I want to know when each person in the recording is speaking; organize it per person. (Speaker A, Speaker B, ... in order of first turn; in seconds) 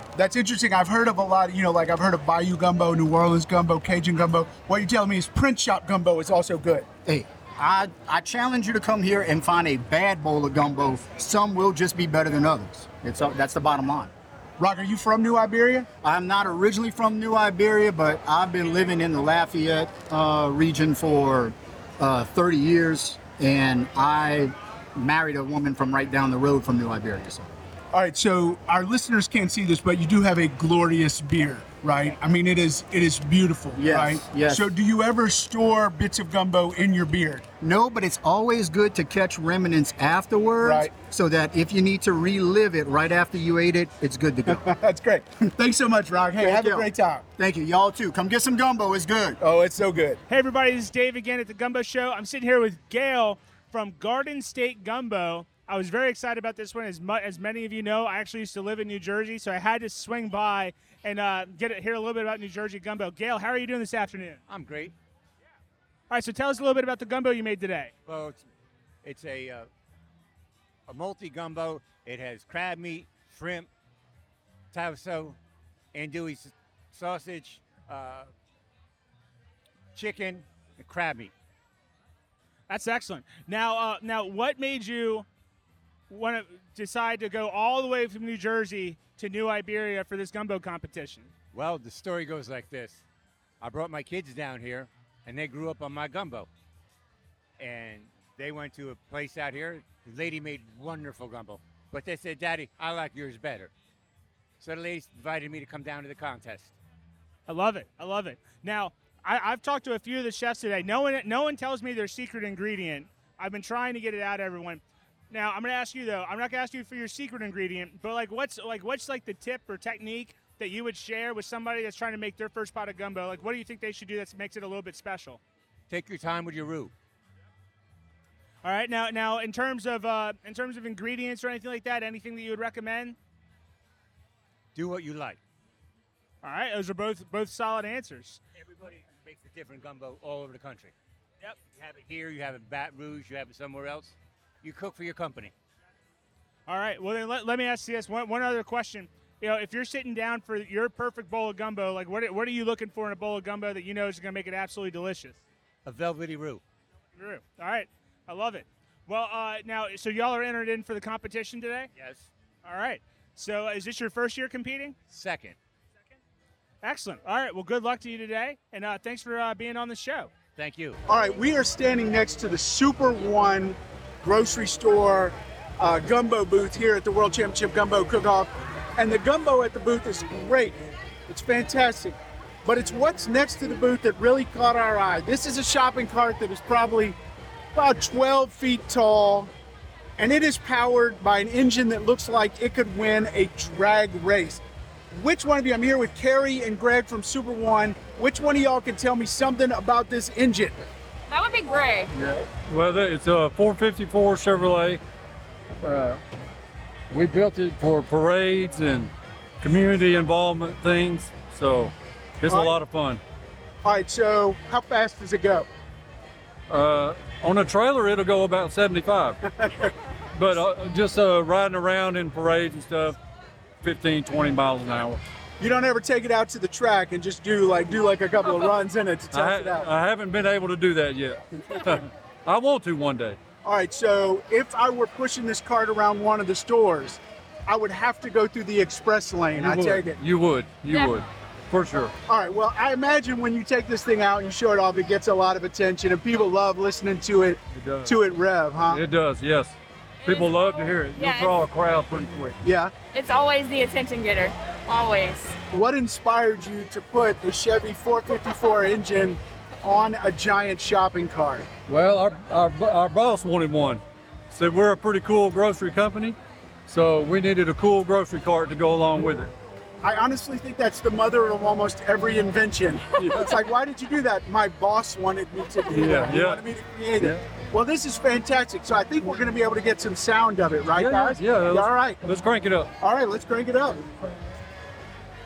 Speaker A: 0.1-6.9, 14.6-15.9, 27.9-37.5, 40.6-40.9, 44.5-47.2, 49.4-50.2, 171.1-187.2, 187.7-189.5, 190.2-200.8, 212.5-212.8, 213.8-215.7, 219.6-219.8, 225.6-229.9, 233.6-240.2, 242.3-249.0, 252.6-252.9, 255.7-261.7, 270.0-282.2, 283.0-284.0
Speaker B: 7.0-14.1, 16.0-27.5, 33.7-34.7, 37.6-44.6, 46.4-49.4
Speaker C: 50.3-64.4, 66.1-67.9, 82.7-85.3, 86.1-91.3, 107.5-125.4, 128.6-133.2, 136.4-138.4, 146.7-155.4, 157.2-161.9, 162.6-164.9, 166.8-170.3
Speaker D: 64.5-64.9, 68.0-68.5, 69.0-69.7, 70.9-73.7, 74.7-75.4, 75.9-78.3, 79.9-81.3, 91.5-93.0, 93.6-96.5, 97.6-103.7, 104.6-106.7, 125.9-126.9, 134.7-135.4, 138.6-140.9, 141.7-145.5, 155.8-156.6, 161.9-162.3, 165.1-165.6, 170.6-171.0
Speaker E: 201.3-202.1, 240.9-241.2, 250.2-250.5, 251.1-251.5, 253.1-255.6
Speaker F: 202.1-205.0, 205.8-206.2, 207.1-213.2, 216.7-219.4, 220.3-223.2, 223.8-225.2, 229.3-233.4, 239.5-242.1, 247.7-248.2, 248.9-252.6, 261.9-266.4, 266.9-269.5, 273.2-273.6, 275.9-277.4, 280.9-282.9